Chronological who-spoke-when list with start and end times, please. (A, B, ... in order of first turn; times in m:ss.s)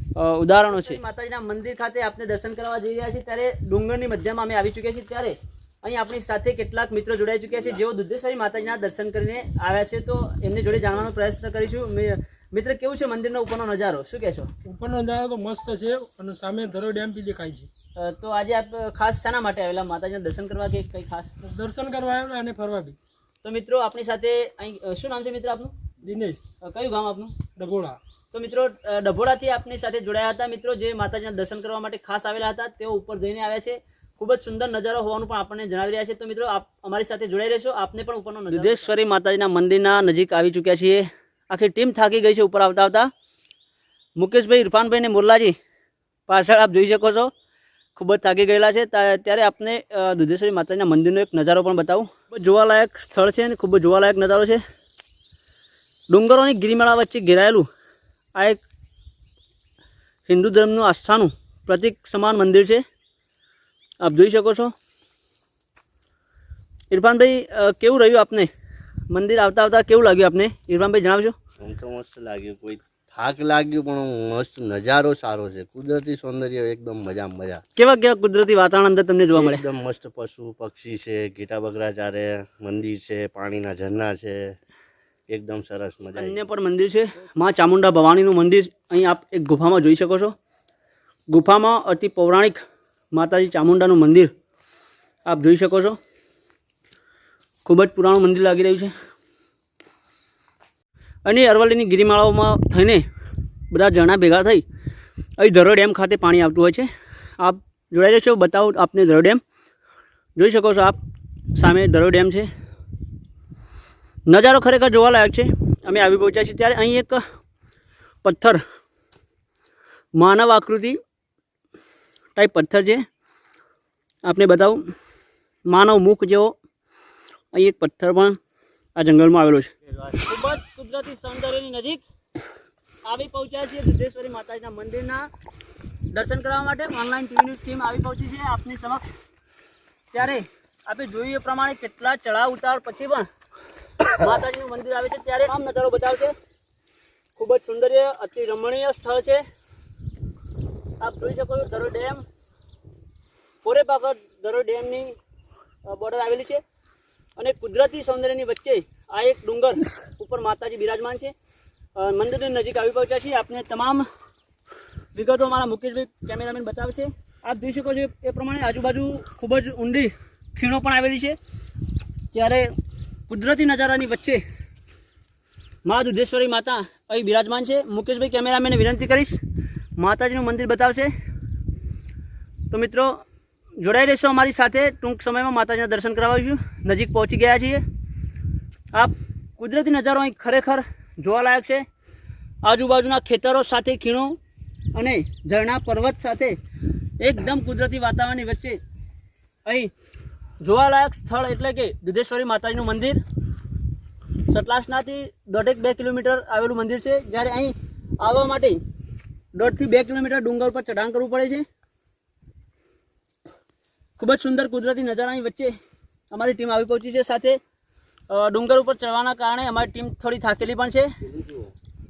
0:00.2-0:14.5 A
0:14.6-0:17.7 B
0:18.0-0:21.3 A
0:21.4-0:23.0 B
0:23.4-0:25.7 A
0:26.0-0:26.4 B
0:26.6-0:27.4 A
0:27.6-0:28.0 B
0:28.3-0:43.1 A
0:44.2-0:45.6 A
0:46.3-0:47.3 A
0:48.0-0:54.6 A
0:56.1-0:57.7 A
0:58.4-0:58.6 A
1:00.3-1:02.8 A
1:04.0-1:04.7 A
1:06.9-1:08.5 A
1:09.1-1:11.4 A
1:11.6-1:17.6 C
1:17.8-1:19.6 A
1:19.3-1:24.6 C
1:25.3-1:26.4 C
1:26.1-1:30.4 A
1:31.3-1:32.6 A
1:33.1-1:34.3 A
1:35.2-1:36.0 A
1:37.6-1:38.9 A
1:41.2-1:43.0 A
1:43.7-1:44.6 A
1:45.4-1:46.9 A
1:47.4-1:49.4 A
1:50.4-1:51.0 A
1:51.6-1:52.5 A
1:54.3-1:57.2 A
1:58.2-1:58.6 A
2:00.2-2:01.0 A
2:02.4-2:03.0 A
2:04.2-2:04.8 A
2:05.7-2:06.6 A
2:07.5-2:08.4 A
2:09.0-2:12.0 A
2:13.0-2:15.3 A
2:16.1-2:19.1 A
2:20.1-2:23.3 A
2:24.1-2:26.3 A
2:27.4-2:29.4 A
2:31.0-2:32.2 A
2:33.6-2:35.2 A
2:35.9-2:36.6 A
2:37.4-2:41.3 A
2:42.0-2:44.1 A
2:45.2-2:51.4 A
2:52.3-2:52.7 A
2:53.3-2:54.4 A
2:55.8-2:59.4 A
3:00.0-3:01.1 A
3:02.7-3:03.2 A
3:03.8-3:07.8 A
3:09.0-3:11.8 A
3:12.6-3:14.4 A
3:15.0-3:16.6 A
3:17.2-3:18.8 A
3:19.7-3:19.9 A
3:20.6-3:23.2 A
3:24.5-3:28.8 A
3:29.6-3:31.6 A
3:34.2-3:35.7 A
3:36.3-3:37.6 A
3:38.3-3:41.1 A
3:41.3-3:41.6 C